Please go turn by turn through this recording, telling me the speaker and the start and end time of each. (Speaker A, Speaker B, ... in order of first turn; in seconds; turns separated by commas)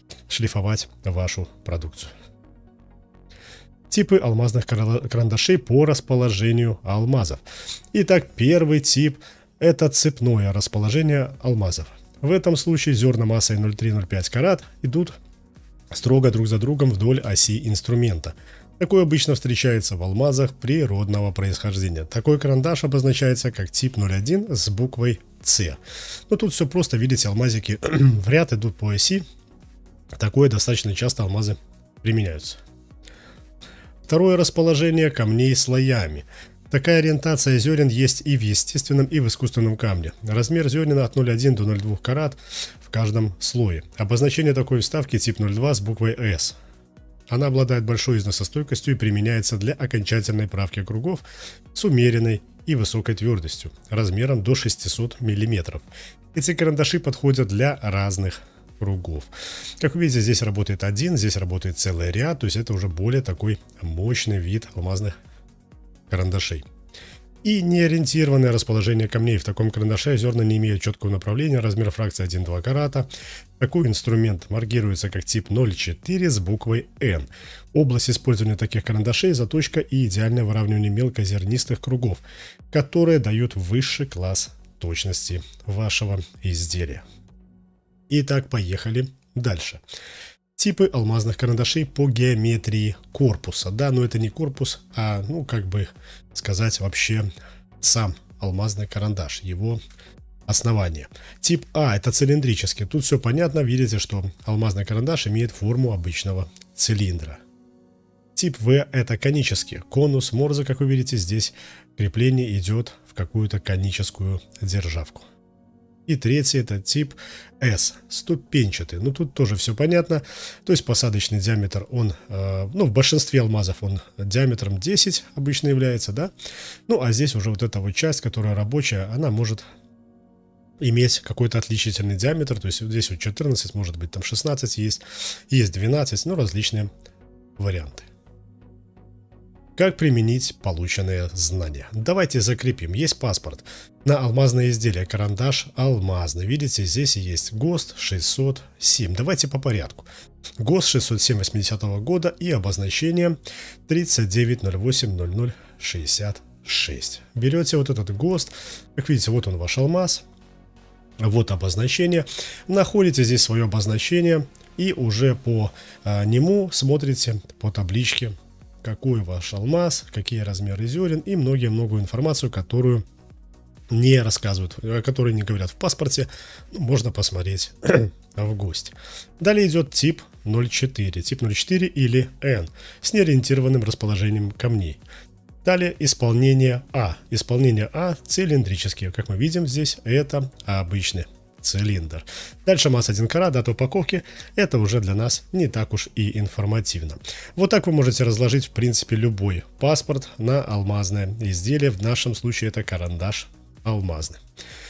Speaker A: 0.3-2.1, Speaker A: 3.9-15.2, Speaker A: 15.9-29.2, Speaker A: 30.2-32.6, Speaker A: 34.1-46.5, Speaker A: 47.3-65.1, Speaker A: 66.1-66.7, Speaker A: 67.4-73.1, Speaker A: 73.6-87.0, Speaker A: 88.1-89.8, Speaker A: 90.5-97.3, Speaker A: 97.8-99.8, Speaker A: 100.5-107.4, Speaker A: 108.3-115.3, Speaker A: 116.1-126.3, Speaker A: 126.9-129.6, Speaker A: 130.8-136.9, Speaker A: 137.6-138.1, Speaker A: 139.8-150.1, Speaker A: 150.6-160.2, Speaker A: 161.2-173.0, Speaker A: 173.9-185.0, Speaker A: 185.6-204.4